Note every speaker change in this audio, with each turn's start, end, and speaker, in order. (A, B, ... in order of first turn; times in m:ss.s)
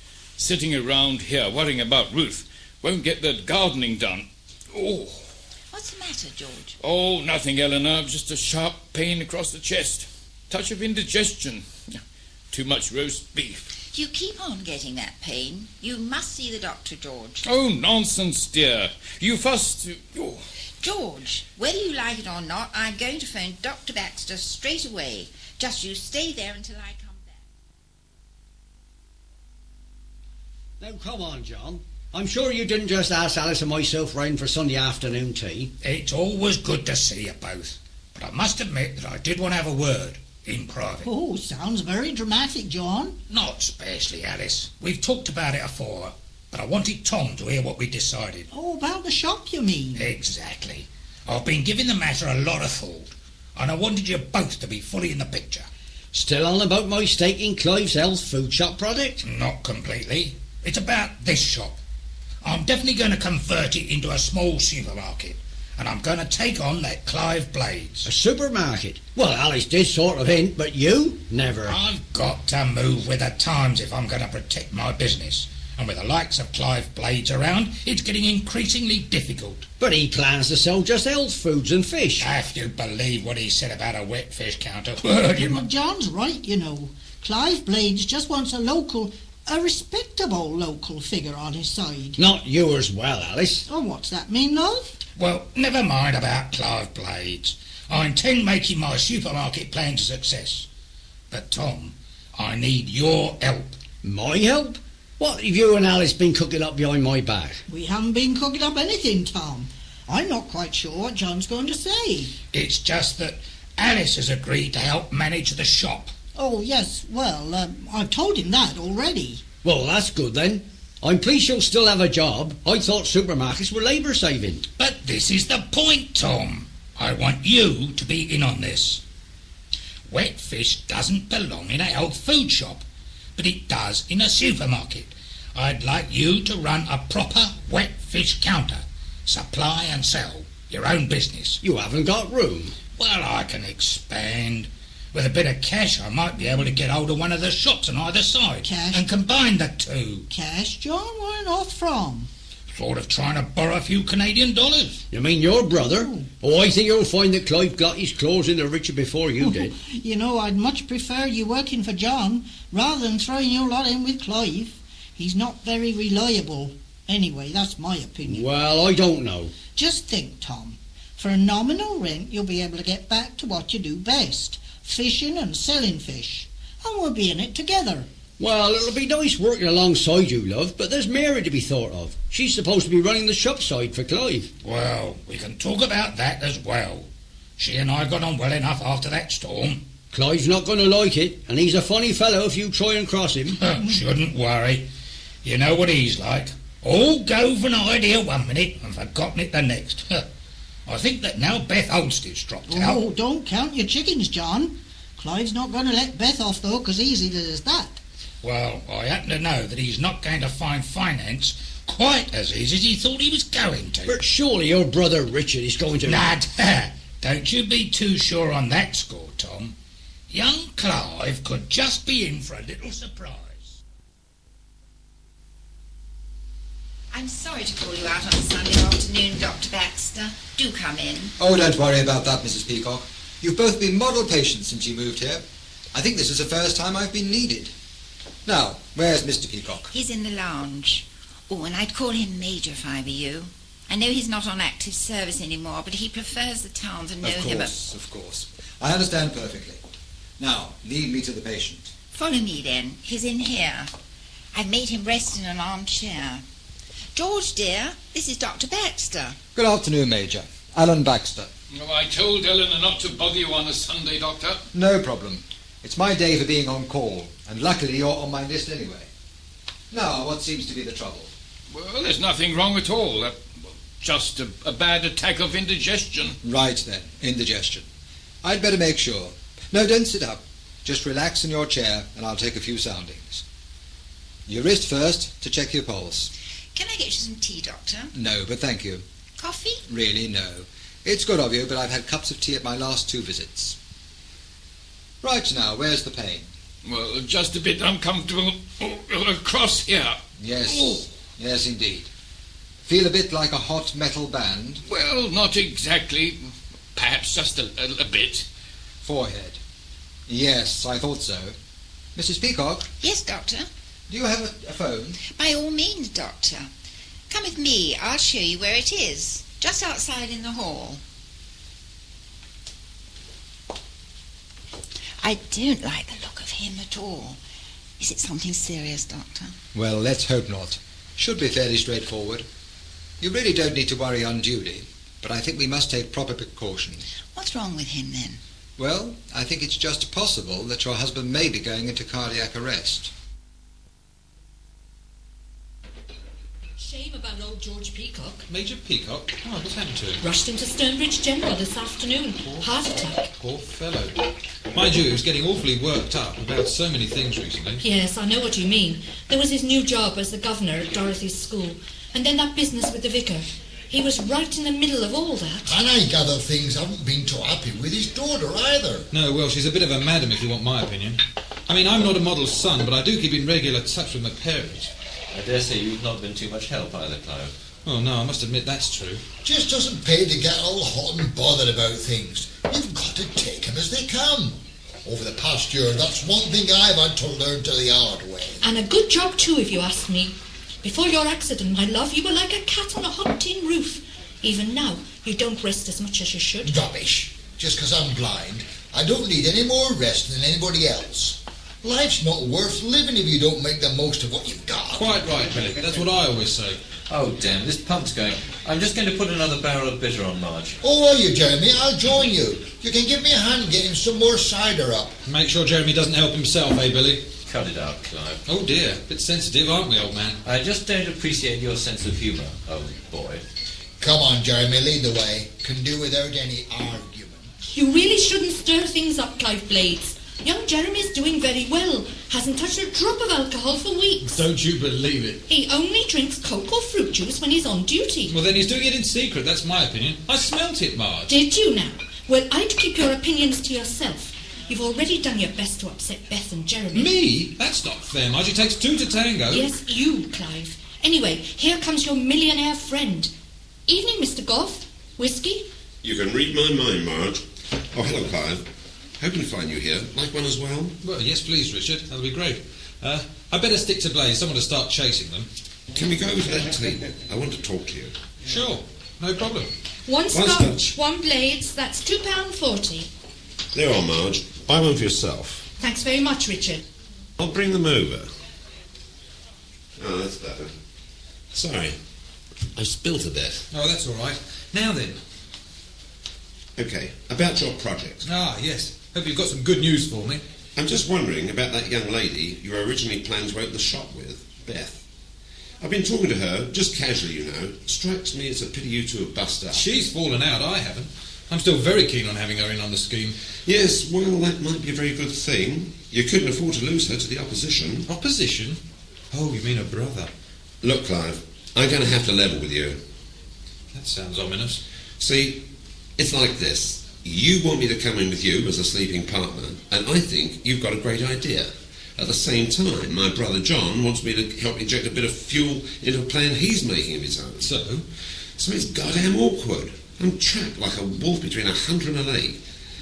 0:00.4-0:05.3 A
0:05.7-0:06.7 B
0:06.8-0:12.0 A
0:12.5-0:13.7 A
0:13.9-0:17.4 B
0:17.4-0:20.4 A
0:20.8-0:27.4 B
0:30.8-0:35.7 C
0:35.8-0:41.1 D
0:41.0-0:43.1 E
0:43.3-0:48.4 D
0:48.5-0:50.1 E
0:50.0-0:55.7 D
0:56.1-0:59.2 C
0:59.2-1:01.8 D
1:02.4-1:08.1 D
1:08.0-1:11.7 C
1:11.7-1:19.6 D
1:19.8-1:22.2 C
1:22.2-1:25.6 D
1:25.3-1:32.2 E
1:32.2-1:33.6 C
1:33.7-1:34.8 E
1:35.2-1:40.6 D
1:41.3-1:43.7 D
1:44.0-1:47.6 C
1:47.7-1:52.3 E
1:52.5-1:56.1 D
1:56.4-1:59.4 E
1:59.6-2:04.6 C
2:04.8-2:09.0 D
2:10.1-2:12.8 D
2:13.4-2:21.6 D
2:21.6-2:22.7 C
2:23.0-2:30.2 D
2:28.6-2:29.1 E
2:30.3-2:32.3 E
2:32.7-2:35.0 D
2:35.1-2:39.7 C
2:35.8-2:36.2 E
2:39.4-2:48.4 E
2:48.2-2:49.5 C
2:49.8-2:58.0 E
2:58.4-3:04.5 C
3:04.6-3:07.0 D
3:07.6-3:09.8 D
3:10.1-3:13.6 C
3:13.6-3:14.8 D
3:15.4-3:20.1 D
3:20.9-3:23.0 D
3:22.7-3:28.0 E
3:28.4-3:34.1 D
3:34.1-3:36.3 C
3:36.0-3:39.7 D
3:40.3-3:43.8 D
3:47.1-3:51.3 B
3:51.4-3:57.7 F
3:58.4-3:59.9 F
3:59.9-4:07.7 B
4:07.2-4:09.8 F
4:10.4-4:11.9 F
4:12.1-4:13.9 B
4:14.5-4:16.4 B
4:17.1-4:19.4 B
4:19.5-4:21.5 F
4:21.7-4:24.6 A
4:24.7-4:29.1 F
4:29.9-4:31.3 F
4:31.7-4:36.4 A
4:36.4-4:37.8 F
4:38.4-4:43.4 F
4:44.5-4:46.3 F
4:46.7-4:48.1 B
4:48.1-4:49.0 F
4:49.4-4:49.8 B
4:49.9-4:53.8 F
4:55.2-4:56.5 F
4:56.8-5:01.0 A
5:00.4-5:02.1 F
5:02.8-5:04.8 F
5:04.9-5:08.4 A
5:09.0-5:09.6 F
5:10.3-5:11.5 F
5:12.2-5:12.9 F
5:13.0-5:13.6 B
5:14.1-5:15.2 F
5:15.3-5:16.7 B
5:17.3-5:21.0 B
5:25.2-5:27.4 B
5:28.0-5:29.5 B
5:29.7-5:32.4 F
5:33.2-5:37.0 F
5:37.3-5:38.4 B
5:38.8-5:43.1 F
5:46.8-5:48.4 G
5:48.5-5:50.2 H
5:50.2-5:53.3 G
5:52.4-5:54.1 H
5:54.7-5:57.8 H
5:57.8-6:05.8 G
6:05.6-6:09.1 I
6:09.1-6:14.9 H
6:15.3-6:17.5 J
6:17.8-6:19.2 H
6:19.4-6:28.6 I
6:28.6-6:36.7 G
6:36.6-6:45.1 I
6:44.9-6:46.8 H
6:47.1-6:50.8 J
6:50.8-6:55.1 I
6:55.2-6:57.3 H
6:57.4-6:58.4 J
6:58.4-7:00.4 H
7:00.4-7:03.4 J
7:04.0-7:07.5 I
7:07.6-7:14.4 G
7:14.3-7:15.4 H
7:15.5-7:18.4 G
7:18.2-7:21.3 H
7:21.3-7:27.1 G
7:26.9-7:29.7 H
7:29.5-7:33.3 G
7:33.9-7:35.7 G
7:36.0-7:38.6 K
7:39.2-7:40.9 K
7:41.0-7:45.5 H
7:45.9-7:48.1 K
7:48.4-7:49.7 H
7:50.0-7:53.1 G
7:50.3-7:50.8 K
7:53.7-7:55.7 K
7:55.8-7:56.8 G
7:57.4-7:58.2 K
8:00.0-8:00.7 K
8:01.5-8:02.0 K
8:02.7-8:03.6 K
8:03.7-8:05.2 H
8:06.8-8:08.3 K
8:08.2-8:10.4 H
8:10.8-8:15.0 K
8:15.8-8:19.9 K
8:19.7-8:23.3 H
8:23.6-8:28.0 K
8:28.0-8:28.8 H
8:29.3-8:30.3 H
8:30.8-8:33.0 K
8:33.9-8:34.8 H
8:35.2-8:47.7 K
8:47.6-8:48.0 H
8:48.6-8:52.6 K